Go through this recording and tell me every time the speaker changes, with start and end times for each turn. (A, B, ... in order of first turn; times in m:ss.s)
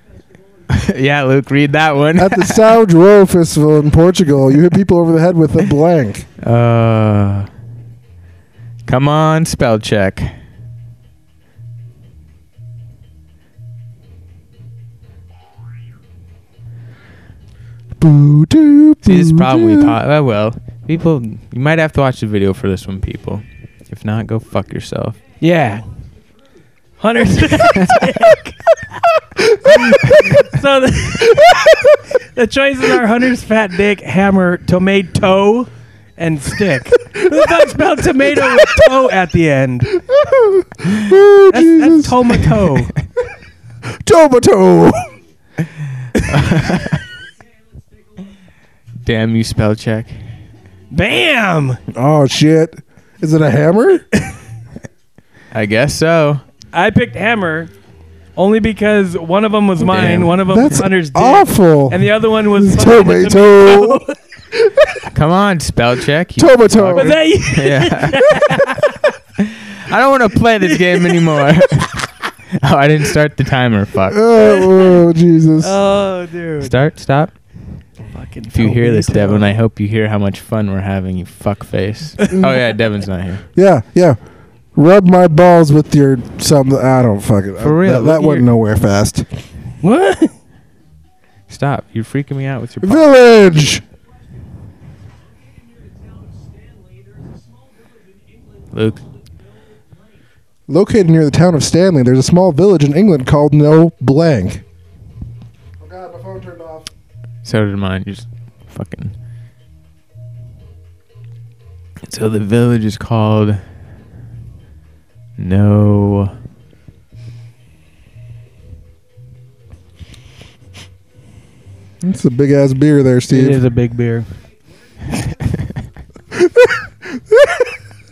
0:00.7-0:02.7 A
0:02.2-0:06.3 B
0:06.4-0:07.5 A
0:08.9-0:10.3 A
0:18.0-0:20.0 B
0:19.0-0:25.2 A
0:25.4-0:25.8 C
0:27.0-0:28.5 C
0:27.8-0:28.3 A
0:29.6-0:40.0 C
0:29.7-0:30.0 B
0:37.2-0:37.4 B
0:38.4-0:38.7 B
0:39.9-0:42.5 B
0:41.5-0:42.9 C
0:43.9-0:45.1 B
0:46.2-0:47.0 A
0:49.0-0:50.2 A
0:50.9-0:51.8 C
0:51.9-0:54.0 B
0:55.5-0:56.4 A
0:56.7-0:57.7 C
0:58.4-1:04.2 C
0:59.8-1:00.3 A
1:00.4-1:04.0 B
1:04.5-1:05.1 B
1:05.1-1:08.9 A
1:06.4-1:07.2 B
1:06.9-1:09.1 C
1:09.4-1:14.2 A
1:10.7-1:11.4 C
1:14.1-1:15.8 B
1:14.4-1:15.0 C
1:15.6-1:16.7 C
1:16.6-1:17.3 A
1:18.1-1:19.5 C
1:18.5-1:23.4 A
1:22.3-1:22.6 B
1:23.5-1:24.2 B
1:24.7-1:29.3 B
1:27.6-1:28.5 A
1:29.8-1:30.3 C
1:31.5-1:33.1 A
1:32.8-1:33.8 B
1:38.7-1:39.0 A
1:40.7-1:44.6 B
1:45.8-1:46.9 B
1:47.4-1:49.1 A
1:52.0-1:53.6 A
1:55.4-1:56.3 A
2:02.0-2:03.6 B
2:03.3-2:04.3 C
2:06.3-2:07.6 B